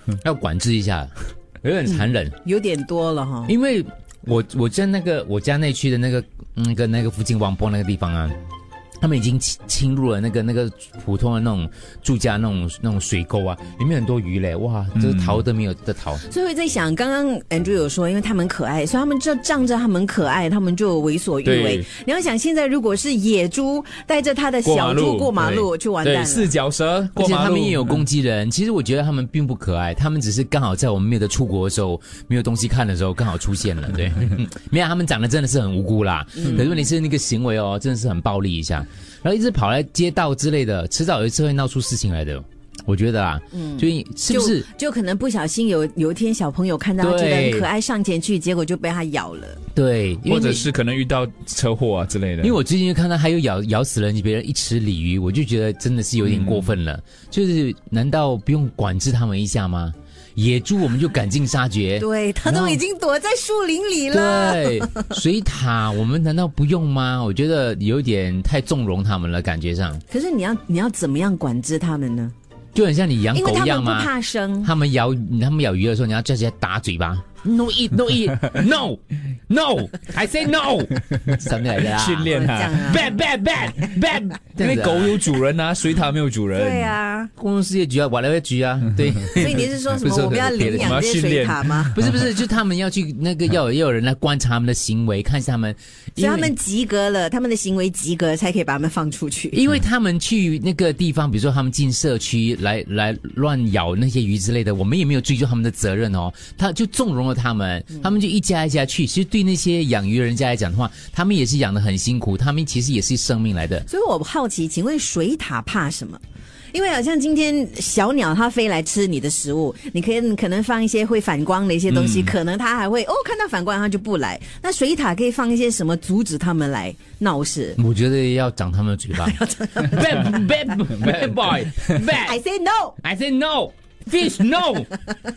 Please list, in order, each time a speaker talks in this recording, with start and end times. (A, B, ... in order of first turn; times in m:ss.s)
0:00.2-0:01.1 A
0:01.6-0:02.4 A
0:02.4-0:03.5 B
0:03.5-0:08.3 A
0:09.0-0:16.2 A
0:14.9-0:15.4 C
0:16.2-0:26.5 B
0:21.4-0:21.9 C
0:24.6-0:28.0 C
0:27.2-0:44.6 A
0:36.4-0:36.9 B
0:43.5-0:49.6 B
0:47.0-0:47.7 A
0:49.7-0:50.7 A
0:50.2-0:52.6 C
0:52.4-1:02.8 A
0:56.2-0:56.7 C
1:02.0-1:05.2 B
1:04.1-1:10.0 A
1:10.1-1:12.3 B
1:12.7-1:14.1 A
1:13.3-1:14.7 B
1:14.6-1:25.2 A
1:21.7-1:23.0 C
1:22.3-1:23.1 B
1:24.6-1:26.9 C
1:26.5-1:27.3 B
1:27.4-1:31.0 A
1:29.3-1:32.0 B
1:30.6-1:31.9 C
1:31.9-1:36.5 A
1:36.2-1:39.6 B
1:39.5-1:53.9 A
1:53.9-1:56.2 B
1:56.7-2:07.8 B
2:01.9-2:02.3 C
2:07.8-2:12.4 A
2:09.2-2:10.3 B
2:12.2-2:13.0 B
2:13.0-2:15.0 A